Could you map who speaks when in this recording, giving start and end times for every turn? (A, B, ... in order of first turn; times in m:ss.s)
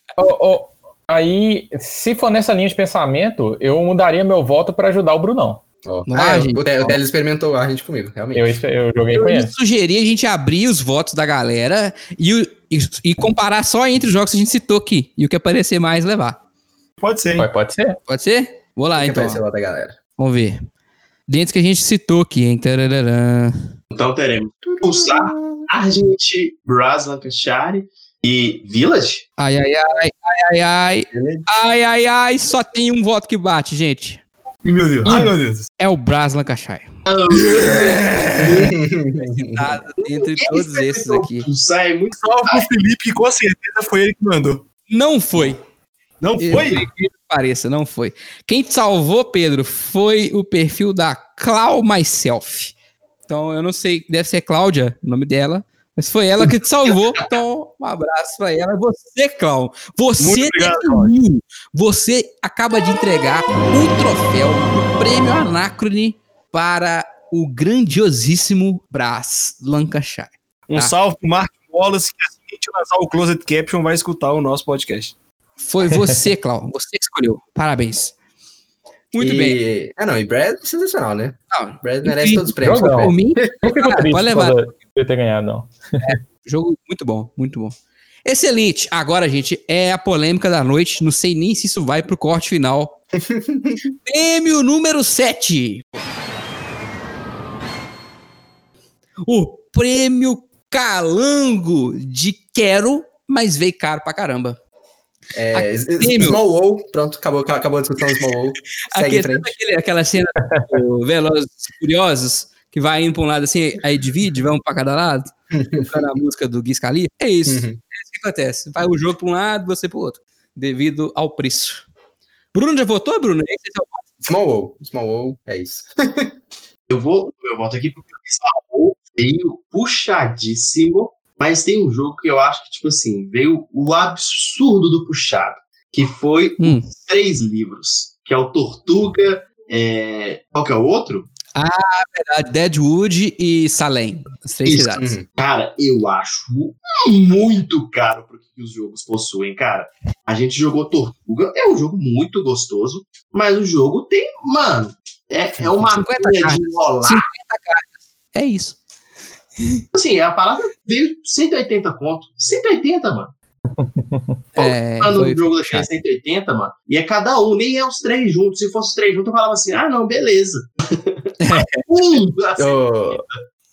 0:00.2-0:05.6 A
0:05.8-0:08.6 B
0:06.1-0:07.0 C
0:08.3-0:09.5 A
0:09.1-0:16.4 C
0:17.0-0:17.5 D
0:17.4-0:18.0 A
0:18.1-0:19.4 C
0:19.0-0:20.0 B
0:20.2-0:20.6 C
0:21.3-0:23.7 C
0:23.9-0:29.2 E
0:24.7-0:25.6 B
0:29.4-0:34.2 C
0:31.1-0:31.5 B
0:34.6-0:35.7 D
0:35.8-0:36.9 C
0:37.0-0:38.7 E
0:37.4-0:38.3 D
0:38.5-0:39.8 B
0:39.2-0:41.5 C
0:40.0-0:42.6 E
0:42.1-0:44.6 D
0:44.9-0:45.6 C
0:46.2-0:46.8 D
0:46.4-0:52.7 C
0:53.3-1:11.0 C
1:00.2-1:01.2 D
1:10.7-1:15.1 D
1:15.6-1:18.1 C
1:19.1-1:19.6 C
1:19.2-1:24.0 B
1:21.5-1:24.6 C
1:22.6-1:26.1 A
1:26.0-1:33.0 C
1:33.1-1:33.9 B
1:34.0-1:35.8 C
1:39.3-1:44.6 C
1:45.3-1:49.5 B
1:45.5-1:46.4 C
1:48.9-2:01.8 C
1:55.5-1:56.1 B
1:57.4-1:57.8 B
2:02.5-2:04.2 C
2:04.2-2:06.4 B
2:06.9-2:21.3 E
2:16.6-2:16.8 C
2:21.5-2:25.1 C
2:24.6-2:37.2 E
2:24.9-2:25.2 B
2:35.7-2:38.8 C
2:39.9-2:43.3 E
2:43.8-2:44.3 A
2:44.5-2:51.3 E
2:44.6-2:45.9 C
2:51.4-2:51.8 C
2:51.9-2:52.8 E
2:52.6-2:53.2 B